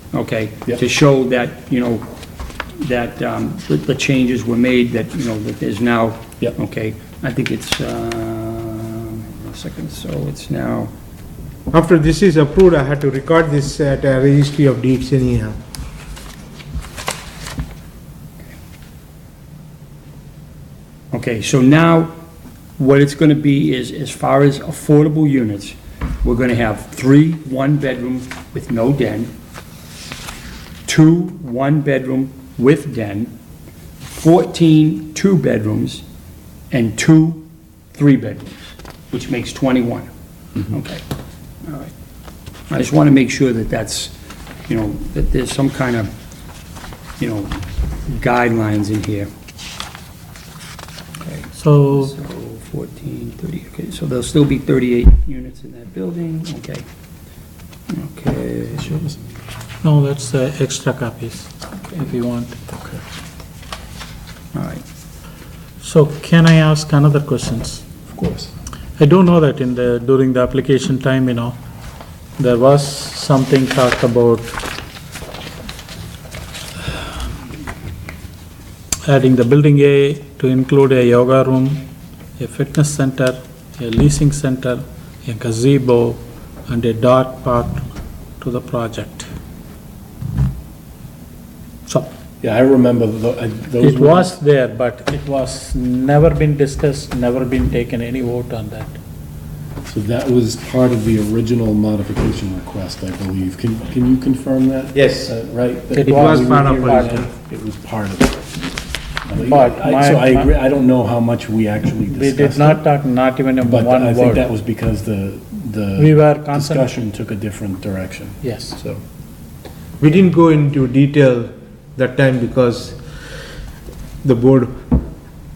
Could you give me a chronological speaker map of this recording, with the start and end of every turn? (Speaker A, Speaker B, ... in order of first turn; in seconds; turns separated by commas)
Speaker A: 0.1-2.1, Speaker A: 2.8-10.9, Speaker B: 11.7-15.6, Speaker A: 21.1-22.1, Speaker A: 22.8-29.3, Speaker A: 30.9-33.3, Speaker A: 34.1-36.0, Speaker A: 36.7-40.1, Speaker A: 40.7-41.0, Speaker A: 41.6-41.9, Speaker A: 42.7-44.1, Speaker A: 44.7-46.1, Speaker A: 47.2-49.3, Speaker A: 51.2-56.9, Speaker C: 51.5-52.1, Speaker A: 57.9-59.1, Speaker C: 59.8-62.6, Speaker D: 62.7-63.0, Speaker A: 64.5-64.8, Speaker C: 65.8-67.9, Speaker D: 68.1-68.5, Speaker C: 69.0-71.6, Speaker C: 72.4-74.6, Speaker C: 79.1-81.8, Speaker C: 82.4-87.8, Speaker C: 88.4-89.3, Speaker D: 92.4-94.3, Speaker C: 93.8-99.0, Speaker D: 99.9-108.4, Speaker B: 104.9-105.3, Speaker C: 105.9-107.2, Speaker B: 106.0-107.3, Speaker D: 109.3-112.8, Speaker C: 109.3-110.5, Speaker C: 112.1-114.5, Speaker D: 113.6-119.0, Speaker C: 116.0-116.9, Speaker C: 118.4-118.8, Speaker B: 120.0-123.0, Speaker B: 124.2-124.8